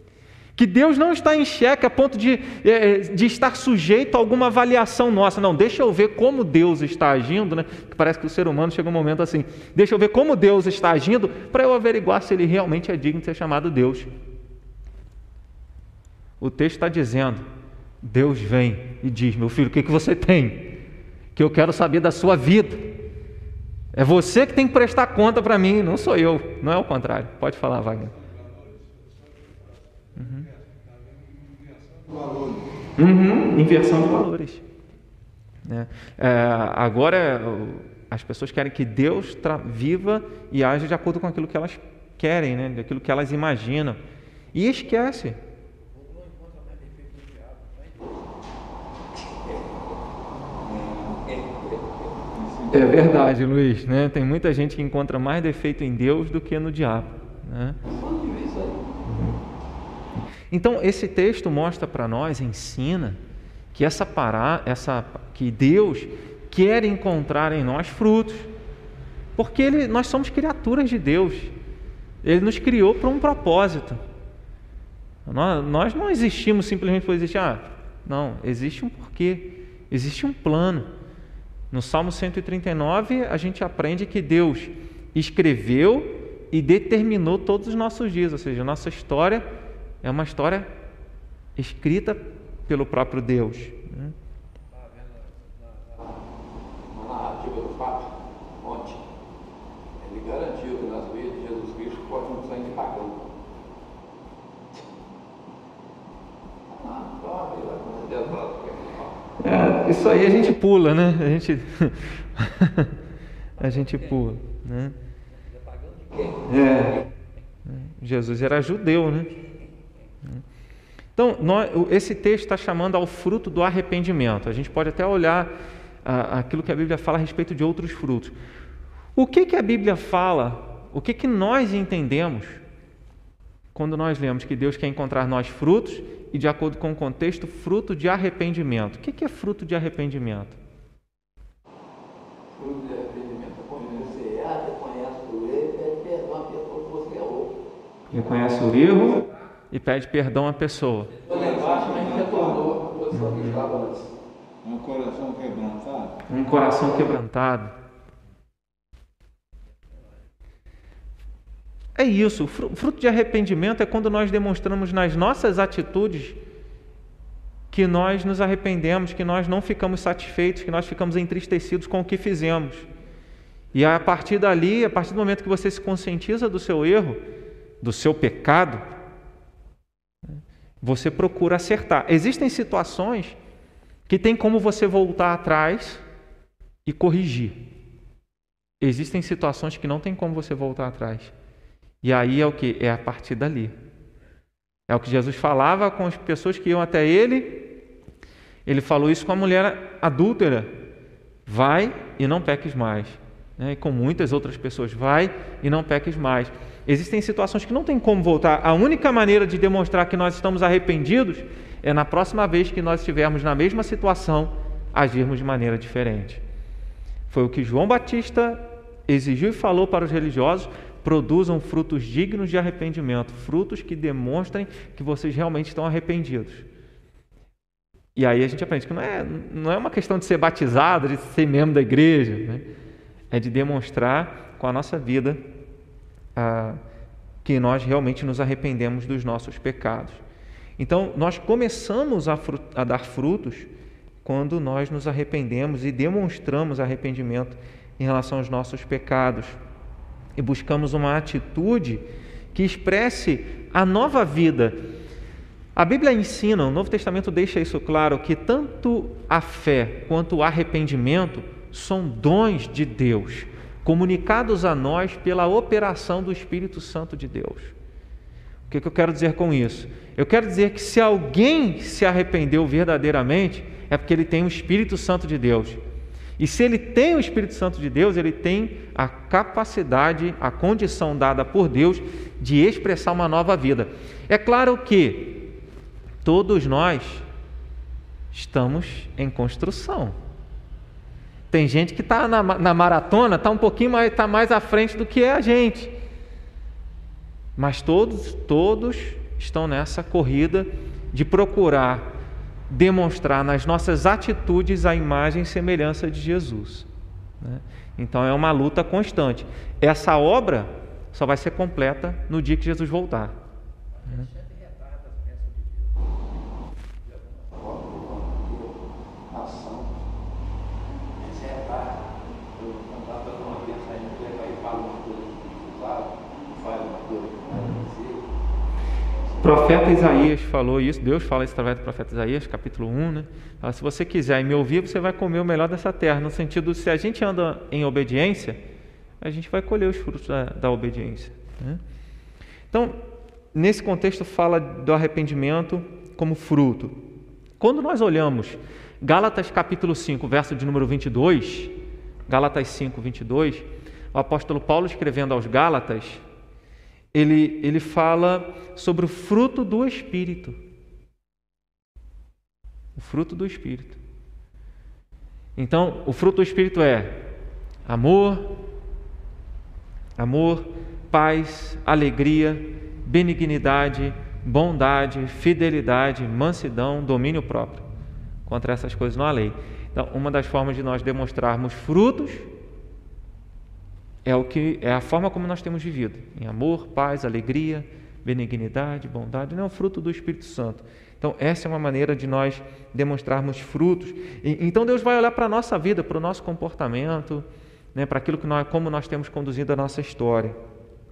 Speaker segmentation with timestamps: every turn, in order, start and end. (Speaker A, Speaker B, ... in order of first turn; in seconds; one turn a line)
Speaker A: 0.6-14.1
Speaker A: 16.4-17.5
Speaker A: 18.0-20.7
Speaker A: 21.4-23.0
Speaker A: 23.9-28.1
Speaker B: 28.0-32.7
Speaker A: 30.2-30.5
Speaker A: 33.0-34.6
Speaker A: 35.6-44.0
Speaker A: 44.5-45.4
Speaker C: 45.9-48.3
Speaker C: 49.1-49.6
Speaker B: 50.6-51.2
Speaker C: 51.2-52.1
Speaker B: 52.3-53.2
Speaker A: 52.7-57.8
Speaker C: 57.8-58.9
Speaker A: 59.1-59.4
Speaker A: 60.5-63.2
Speaker A: 63.7-68.5
Speaker A: 69.4-71.5
Speaker A: 72.2-74.0
Speaker A: 75.3-80.9
Speaker A: 81.7-89.5
Speaker A: 90.0-90.7
Speaker A: 91.6-94.2
Speaker C: 94.7-96.3
Speaker C: 96.9-99.1
Speaker C: 100.0-103.4
Speaker C: 106.7-109.2
Speaker A: 109.4-113.0
Speaker A: 113.6-115.0
Speaker C: 113.6-114.2
Speaker C: 115.3-116.8
Speaker A: 116.4-117.0
Speaker A: 117.7-119.3
Speaker A: 121.2-125.5
Speaker A: 126.0-128.4
Speaker A: 129.2-132.6
Speaker A: 133.8-140.6
Speaker C: 142.5-147.6
Speaker A: 148.1-151.1
Speaker C: 151.2-154.1
Speaker B: 151.2-152.8
Speaker A: 153.1-153.6
Speaker B: 154.6-156.2
Speaker A: 156.3-157.8
Speaker A: 162.0-166.4
Speaker A: 167.7-172.9
Speaker A: 173.7-177.2
Speaker A: 177.8-178.8
Speaker A: 180.3-183.4
Speaker A: 184.1-186.0
Speaker A: 186.8-187.6
Speaker A: 188.8-191.3
Speaker A: 192.0-193.8
Speaker A: 194.9-197.7
Speaker A: 198.7-200.7
Speaker A: 201.5-216.4
Speaker A: 217.3-226.7
Speaker A: 228.2-232.6
Speaker A: 233.3-235.4
Speaker A: 236.4-236.8
Speaker A: 237.4-240.2
Speaker A: 240.8-243.7
Speaker A: 244.2-249.6
Speaker A: 250.4-254.8
Speaker A: 255.8-267.7
Speaker A: 268.7-275.8
Speaker A: 276.4-285.4
Speaker A: 286.2-287.3
Speaker A: 288.3-290.2
Speaker A: 291.5-295.9
Speaker A: 297.6-302.1
Speaker A: 302.7-306.9
Speaker A: 307.4-313.4
Speaker C: 314.0-316.1
Speaker C: 317.0-319.9
Speaker C: 321.1-328.3
Speaker A: 327.5-327.9
Speaker A: 329.4-338.6
Speaker A: 339.2-341.8
Speaker A: 342.7-343.0
Speaker A: 343.5-347.0
Speaker A: 347.6-351.7
Speaker A: 352.3-356.2
Speaker A: 357.1-360.6
Speaker A: 363.0-364.0
Speaker A: 365.6-367.2
Speaker A: 367.9-368.6
Speaker A: 370.2-377.9
Speaker A: 378.5-382.5
Speaker A: 384.2-400.6